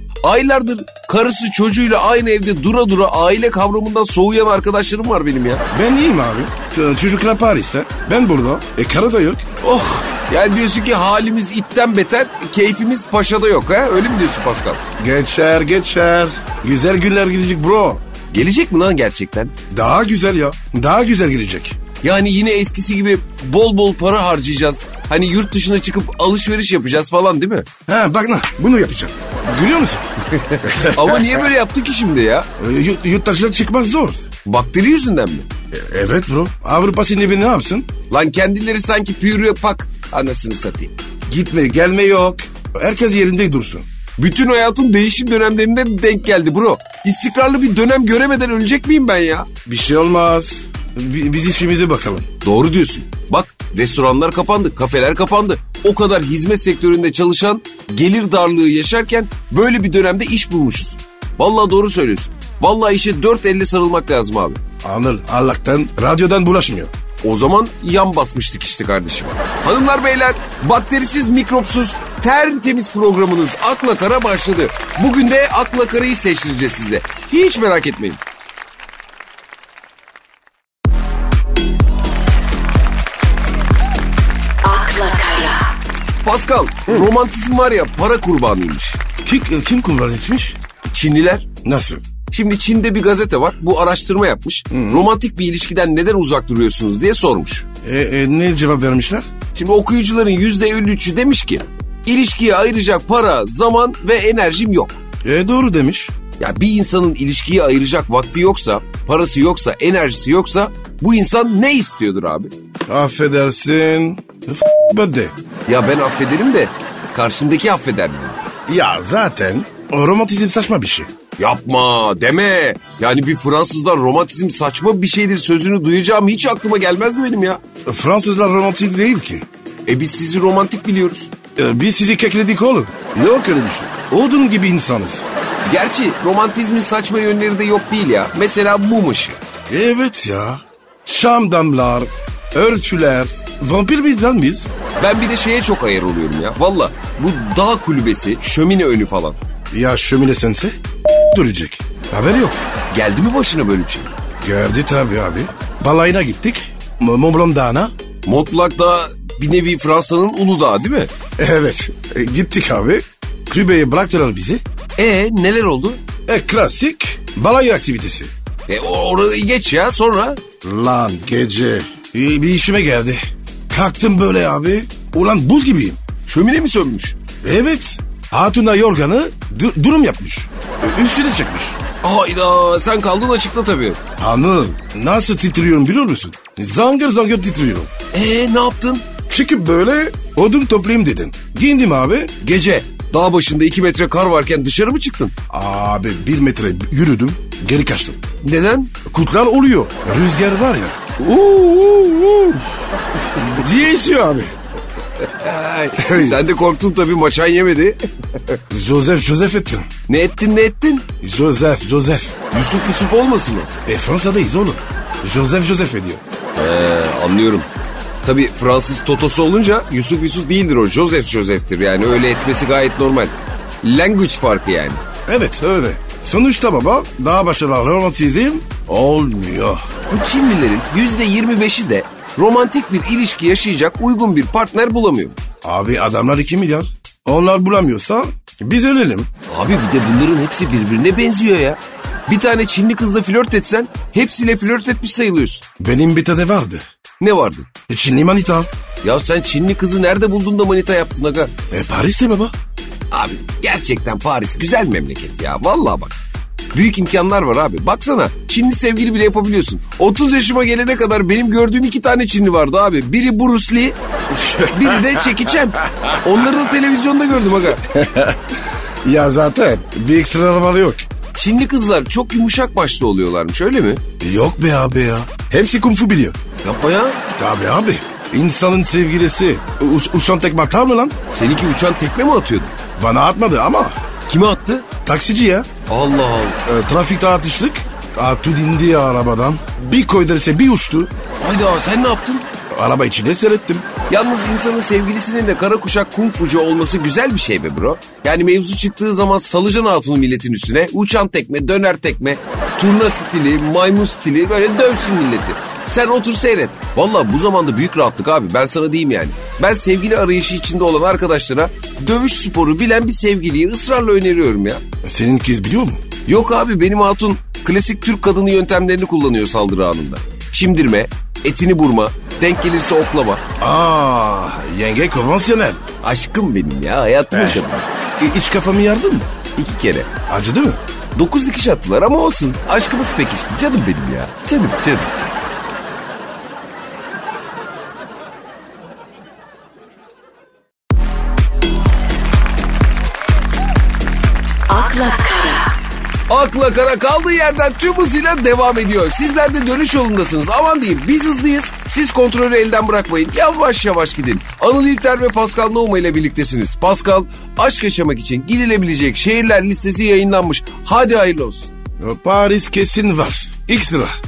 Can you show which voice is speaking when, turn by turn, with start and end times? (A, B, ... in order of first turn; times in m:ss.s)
0:00.2-0:05.6 A
0:05.7-0:10.0 B
0:10.1-0:14.8 A
0:15.0-0:18.0 B
0:18.3-0:19.5 A
0:19.7-0:21.8 B
0:22.0-0:27.7 A
0:27.9-0:30.0 B
0:30.3-0:32.5 A
0:30.6-0:31.4 B
0:32.6-0:34.3 B
0:34.4-0:35.5 A
0:35.7-0:37.9 B
0:38.1-0:40.9 A
0:41.3-0:43.9 B
0:44.2-0:49.5 A
0:49.7-0:52.3 B
0:52.4-1:04.6 A
1:04.8-1:06.9 B
1:07.2-1:18.2 A
1:24.6-1:25.7 C
1:26.2-1:29.0 A
1:29.2-1:30.6 B
1:30.9-1:31.5 A
1:31.6-1:32.0 B
1:32.3-1:37.7 A
1:34.7-1:35.1 B
1:37.8-1:39.3 B
1:39.6-1:45.0 A
1:45.2-1:46.1 B
1:46.4-1:52.5 A
1:52.9-1:55.3 B
1:55.7-1:58.5 A
1:58.7-2:01.1 B
2:01.4-2:07.6 A
2:07.8-2:09.5 B
2:09.9-2:11.3 A
2:11.6-2:15.3 B
2:15.7-2:19.4 A
2:19.7-2:24.7 B
2:25.0-2:29.4 A
2:29.7-2:32.6 B
2:32.9-2:34.1 A
2:34.4-2:37.9 B
2:38.2-2:41.1 A
2:41.4-2:44.6 B
2:45.0-2:46.0 A
2:46.3-2:48.3 B
2:48.7-2:50.4 A
2:50.6-2:56.0 B
2:56.3-2:57.2 A
2:57.4-3:01.8 B
3:02.0-3:04.0 A
3:04.2-3:07.9 B
3:08.1-3:09.1 A
3:09.3-3:12.3 B
3:12.4-3:15.3 A
3:15.5-3:18.2 B
3:18.4-3:18.9 A
3:19.0-3:22.7 B
3:23.4-3:24.6 B
3:25.2-3:28.6 A
3:26.0-3:26.4 B
3:28.7-3:29.9 B
3:30.1-3:31.1 A
3:31.2-3:32.4 B
3:32.5-3:33.7 A
3:33.9-3:36.2 B
3:36.6-3:37.7 A
3:38.2-3:45.0 A
3:45.3-3:49.8 B
3:50.1-3:55.5 A
3:55.6-3:59.3 B
3:59.5-4:05.6 A
4:05.8-4:06.8 B
4:07.2-4:07.7 A
4:07.9-4:08.7 B
4:09.0-4:11.5 A
4:11.7-4:12.5 B
4:13.1-4:16.2 A
4:16.7-4:24.0 A
4:24.4-4:25.4 B
4:24.5-4:27.8 A
4:27.8-4:31.1 B
4:31.4-4:34.0 A
4:34.2-4:36.4 B
4:36.6-4:37.2 A
4:37.4-4:41.2 B
4:41.3-4:42.7 A
4:43.0-4:44.0 B
4:44.3-4:44.9 A
4:45.0-4:45.7 B
4:45.9-4:46.6 A
4:46.6-4:51.1 B
4:51.4-4:52.5 A
4:52.7-4:53.9 B
4:54.1-5:14.8 A
5:15.0-5:16.0 B
5:16.2-5:23.4 A
5:23.6-5:25.8 B
5:26.0-5:27.9 A
5:27.3-5:27.6 B
5:28.2-5:29.3 B
5:29.6-5:30.1 A
5:30.3-5:30.8 B
5:31.2-5:35.1 A
5:44.7-5:45.8 C
5:46.3-6:01.7 A
6:02.0-6:04.2 B